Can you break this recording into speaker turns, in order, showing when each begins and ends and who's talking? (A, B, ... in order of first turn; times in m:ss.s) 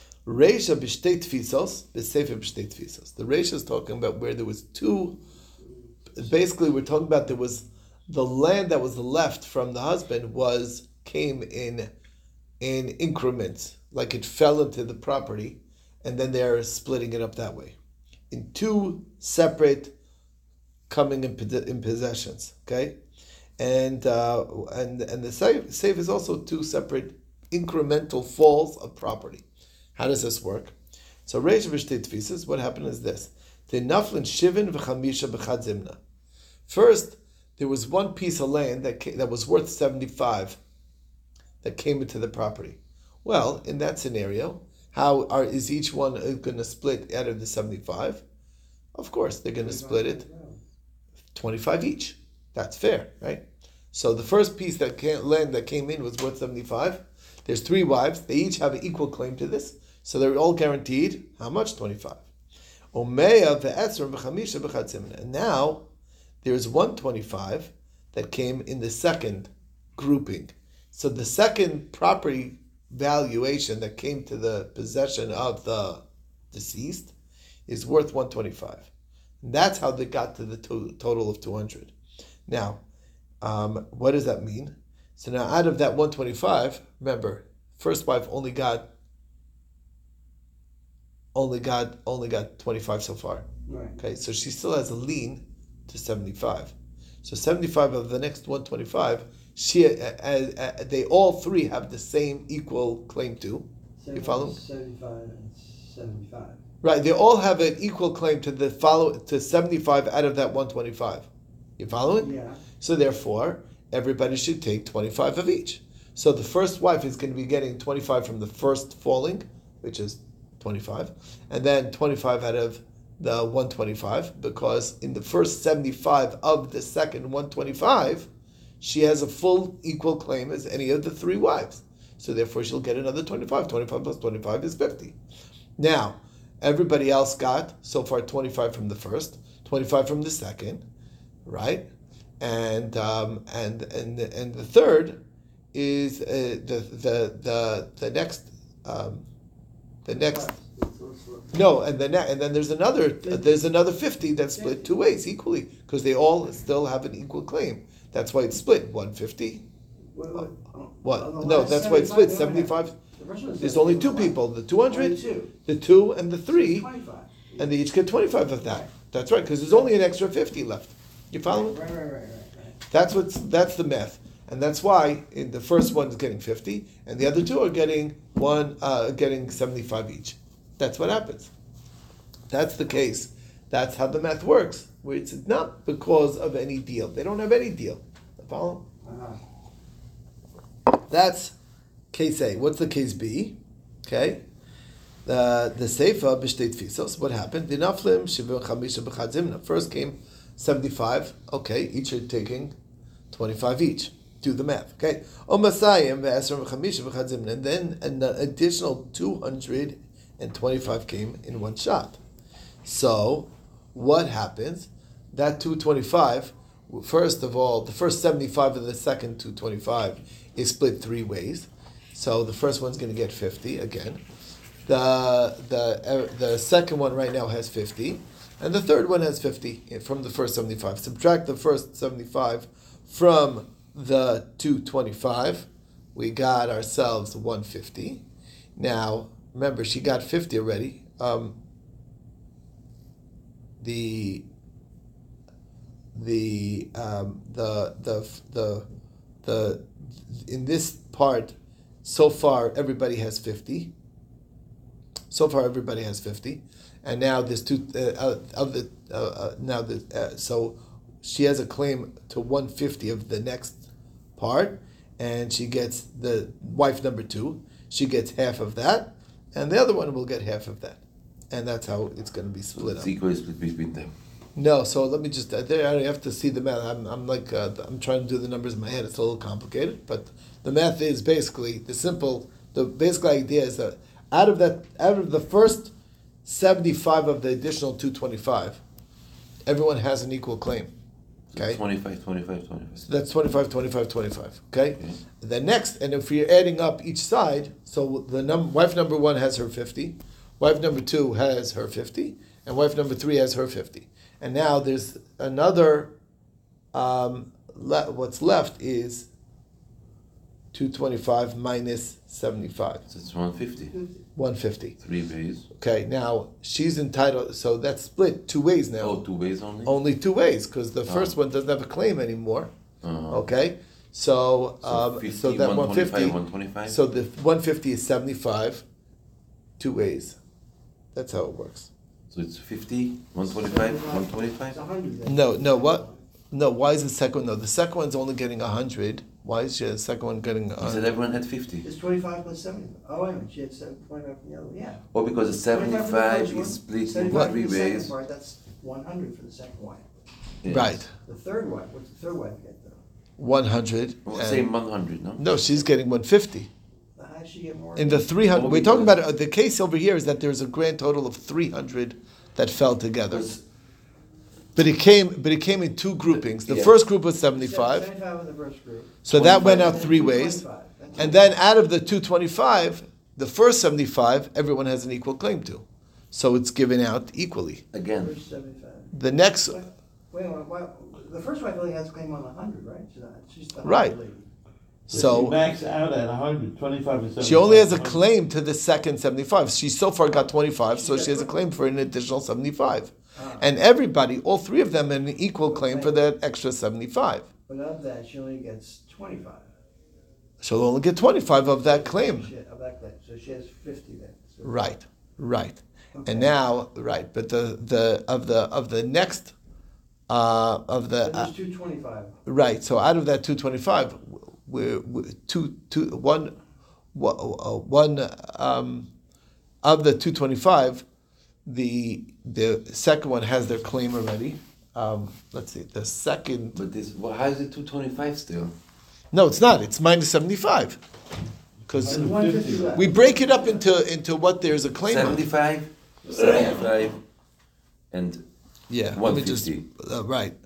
0:00.3-0:05.2 A
0:06.2-0:11.9 A
0:12.6-0:17.8 A
0:18.3-0:19.9 A
0:20.9-0:23.0 A
0:23.6-0:29.4 A
0:30.0-0:30.8 A
0:31.3-0:36.0 A
0:36.7-0:40.6 A
0:41.6-0:48.2 A
0:49.0-0:50.2 A
0:49.6-0:50.6 B
0:51.4-1:02.2 A
1:02.9-1:05.8 A
1:06.4-1:17.1 A
1:17.7-1:18.9 A
1:19.4-1:21.9 A
1:22.5-1:22.8 A
1:23.4-1:28.9 A
1:31.4-1:33.5 A
1:33.7-1:34.0 B
1:34.0-1:44.6 A
1:44.0-1:46.6 B
1:46.8-1:51.3 A
1:51.8-2:08.3 A
1:52.2-1:52.6 B
2:08.8-2:15.2 A
2:15.8-2:20.8 A
2:21.5-2:21.9 A
2:22.4-2:25.2 A
2:25.7-2:29.2 A
2:30.0-2:30.5 A
2:30.1-2:31.6 B
2:31.5-2:39.6 A
2:33.2-2:33.6 B
2:34.6-2:34.9 B
2:40.2-2:44.4 B
2:41.0-2:43.0 A
2:43.6-2:45.1 A
2:44.9-2:45.6 B
2:45.7-2:46.9 A
2:46.5-2:47.7 B
2:47.6-2:51.8 A
2:48.4-2:48.9 B
2:51.5-2:52.8 B
2:52.9-3:01.5 A
3:02.5-3:08.8 A
3:09.0-3:09.4 B
3:11.1-3:11.6 A
3:12.1-3:14.4 A
3:15.3-3:22.8 A
3:23.3-3:32.2 A
3:32.8-3:44.2 A
3:44.9-3:58.2 A
3:58.8-4:01.6 A
4:03.8-4:04.4 A
4:06.2-4:08.9 A
4:09.4-4:13.9 A
4:15.3-4:23.8 A
4:24.4-4:33.1 A
4:32.8-4:34.1 C
4:34.6-4:45.9 A
4:46.4-4:48.8 A
4:49.7-4:50.9 A
4:51.5-4:53.1 C
4:53.0-5:06.1 A
5:06.9-5:09.3 A
5:10.7-5:13.0 A
5:13.1-5:14.0 C
5:14.4-5:15.0 A
5:15.0-5:15.7 C
5:15.8-5:19.2 A
5:19.0-5:19.9 C
5:19.8-5:22.7 A
5:21.1-5:21.4 C
5:23.0-5:23.5 C
5:23.3-5:28.8 A
5:24.8-5:27.0 C
5:29.8-5:30.4 A
5:31.2-5:31.9 A
5:32.3-5:34.8 C
5:33.6-5:36.2 B
5:35.2-5:41.1 A
5:40.8-5:41.9 C
5:41.8-5:45.0 B
5:45.1-5:48.1 C
5:45.7-5:50.0 B
5:50.6-5:51.1 C
5:50.7-5:51.1 A
5:51.3-5:53.0 B
5:53.4-5:54.7 A
5:54.3-5:55.5 C
5:55.4-5:56.7 A
5:57.2-5:58.2 B
5:58.0-6:03.5 A
5:58.5-5:59.2 C
6:03.3-6:03.6 C
6:04.8-6:08.1 A
6:06.5-6:07.0 C
6:07.5-6:11.4 B
6:09.2-6:10.6 A
6:09.3-6:10.1 C
6:11.2-6:17.8 A
6:17.9-6:18.3 C
6:18.2-6:19.1 B
6:19.1-6:19.8 A
6:19.7-6:24.4 B
6:23.8-6:24.2 A
6:25.1-6:28.2 D
6:25.1-6:25.6 A
6:27.4-6:37.5 A
6:30.9-6:31.5 B
6:33.4-6:33.7 B
6:35.7-6:36.2 B
6:37.7-6:39.6 B
6:40.6-6:42.5 A
6:41.8-6:44.8 B
6:44.6-6:49.6 A
6:46.1-6:46.5 B
6:50.3-6:51.5 A
6:51.2-6:52.4 B
6:52.5-6:56.5 A
6:57.1-6:59.1 A
6:59.8-7:01.0 A
7:01.6-7:06.8 A
7:06.7-7:08.7 C
7:09.3-7:11.0 A
7:11.9-7:12.3 A
7:12.0-7:13.1 D
7:12.0-7:13.9 B
7:12.9-7:15.4 A
7:15.0-7:17.2 C
7:18.1-7:18.4 C
7:18.9-7:20.6 A
7:19.1-7:19.8 C